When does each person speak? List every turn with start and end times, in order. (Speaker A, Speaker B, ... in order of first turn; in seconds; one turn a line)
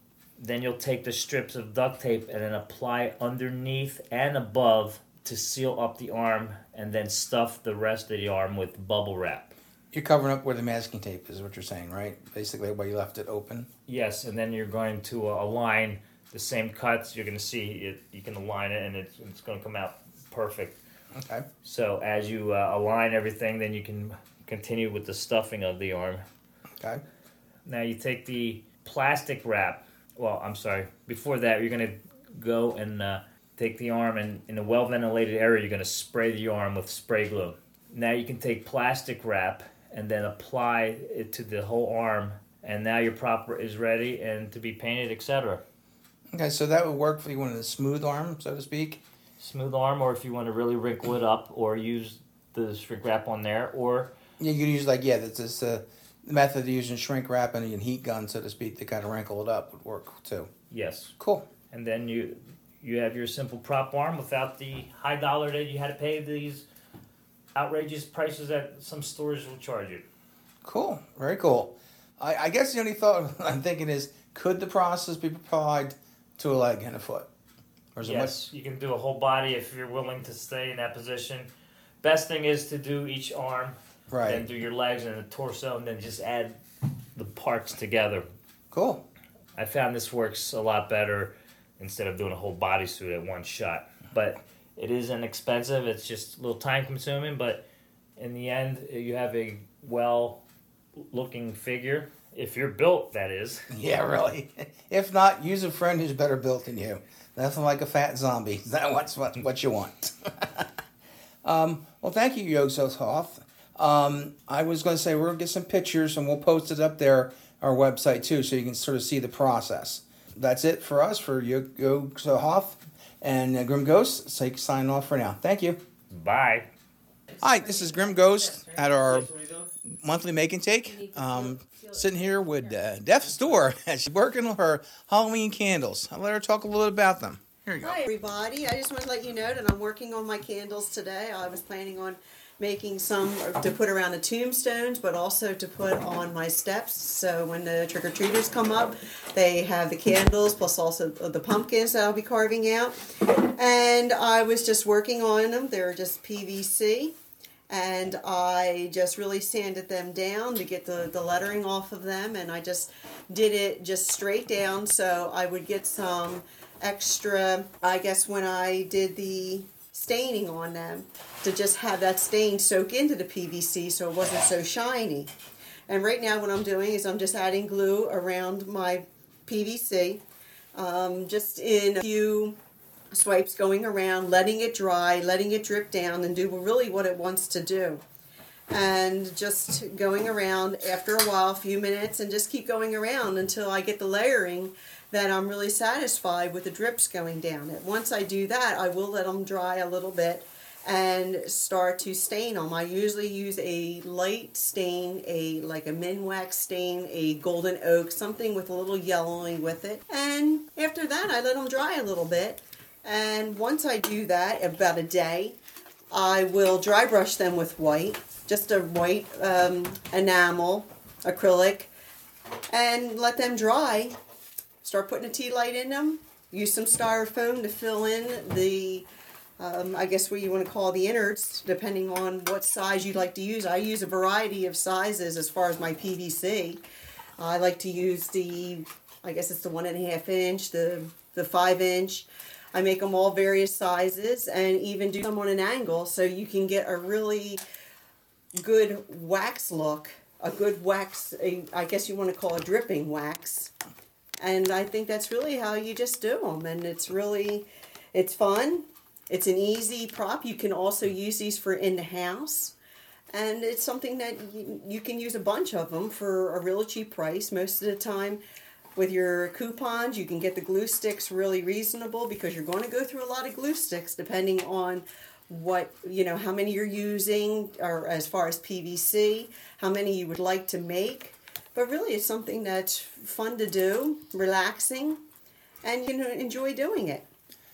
Speaker A: 0.4-9.5
Speaker B: 9.9-13.7
Speaker A: 13.9-20.8
Speaker B: 21.2-21.5
Speaker A: 21.6-26.2
Speaker A: 27.7-45.6
Speaker B: 46.3-49.0
Speaker A: 49.4-54.1
Speaker B: 54.4-60.5
Speaker A: 60.7-61.1
Speaker B: 61.2-61.5
Speaker A: 61.7-66.7
Speaker A: 67.5-70.0
Speaker B: 70.6-77.3
Speaker B: 78.0-78.5
Speaker A: 78.0-81.5
Speaker A: 82.0-83.8
Speaker B: 84.1-84.5
Speaker A: 84.3-86.6
Speaker A: 87.2-88.3
Speaker B: 88.7-89.0
Speaker A: 89.6-97.7
Speaker A: 98.2-100.4
Speaker A: 101.1-103.6
Speaker B: 103.7-110.7
Speaker B: 111.4-125.8
Speaker A: 126.1-126.7
Speaker B: 127.4-129.3
Speaker B: 129.9-138.0
Speaker C: 137.8-153.0
Speaker C: 153.6-157.2
Speaker C: 157.7-175.3
Speaker C: 175.9-180.2
Speaker C: 180.8-182.6
Speaker C: 183.1-188.0
Speaker C: 188.7-215.6
Speaker C: 216.1-221.9
Speaker C: 222.7-224.2
Speaker C: 224.8-229.1
Speaker C: 229.6-236.8
Speaker C: 237.4-247.6
Speaker C: 248.6-253.7
Speaker C: 254.4-262.8
Speaker C: 263.3-268.4
Speaker C: 269.0-285.2
Speaker C: 285.8-287.3